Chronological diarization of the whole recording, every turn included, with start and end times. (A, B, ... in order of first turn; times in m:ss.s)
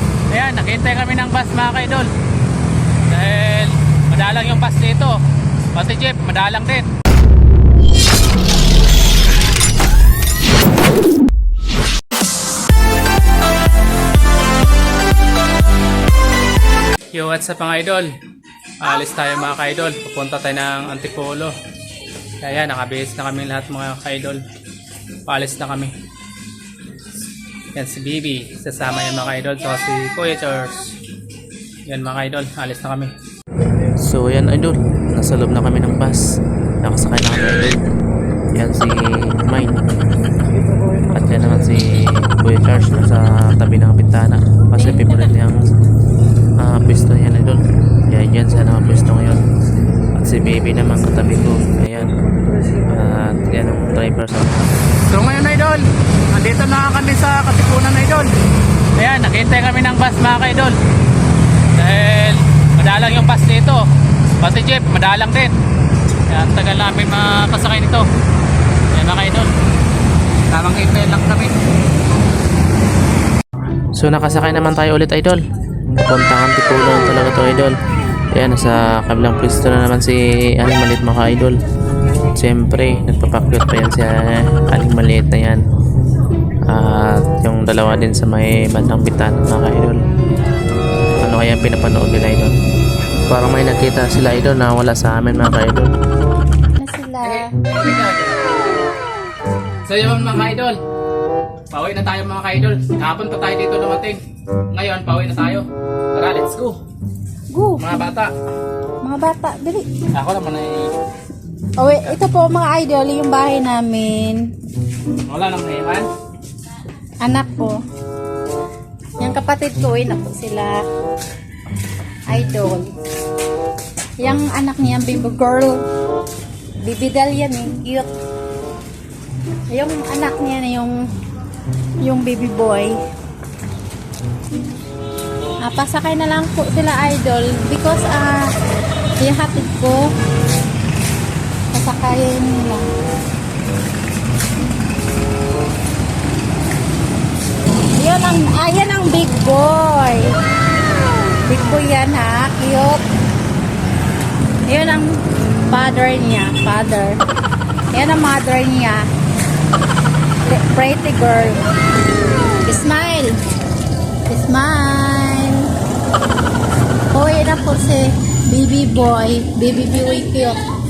0:00.3-0:02.1 A
0:03.1-0:05.2 A
0:05.7-0:06.9 A
0:17.1-0:18.1 A
0:18.8-0:21.5 A
0:22.4-0:24.4 A
0:25.3-0:25.9 A
0:27.7-0:30.9 A
0:31.8-0:33.1 A
0:34.0-0:36.2 B
0:36.8-0:37.8 B
0:38.5-0:39.8 B
0:41.1-0:45.7 B
0:44.8-0:45.3 C
0:46.6-0:49.4 B
0:50.1-0:52.2 B
0:52.9-0:54.6 B
0:55.1-0:58.3 A
0:59.0-1:00.7 A
1:01.7-1:03.8 A
1:04.4-1:05.5 A
1:06.3-1:08.0 A
1:08.9-1:09.5 A
1:10.5-1:11.5 A
1:13.9-1:15.4 B
1:15.9-1:17.7 B
1:18.3-1:21.5 B
1:22.3-1:25.6 B
1:26.7-1:30.0 B
1:31.2-1:32.5 B
1:33.3-1:35.9 B
1:36.8-1:37.5 C
1:37.2-1:38.8 A
1:39.8-1:40.8 A
1:41.7-1:44.2 A
1:44.7-1:46.8 A
1:47.5-1:47.8 C
1:47.8-1:48.3 A
1:49.0-1:49.9 C
1:50.1-1:50.9 A
1:51.8-1:54.4 C
1:55.2-1:56.1 A
1:57.2-1:57.8 C
1:59.2-2:00.8 C
2:02.3-2:02.9 C
2:04.2-2:05.8 C
2:06.8-2:08.1 C
2:09.7-2:10.9 C
2:12.0-2:12.9 C
2:15.6-2:18.5 C
2:19.2-2:20.0 C
2:21.7-2:22.8 C
2:27.9-2:30.4 C
2:31.4-2:33.0 C
2:34.7-2:37.2 C
2:37.9-2:39.0 C
2:40.4-2:41.6 C
2:42.6-2:43.3 C
2:44.3-2:45.7 C
2:47.1-2:50.6 C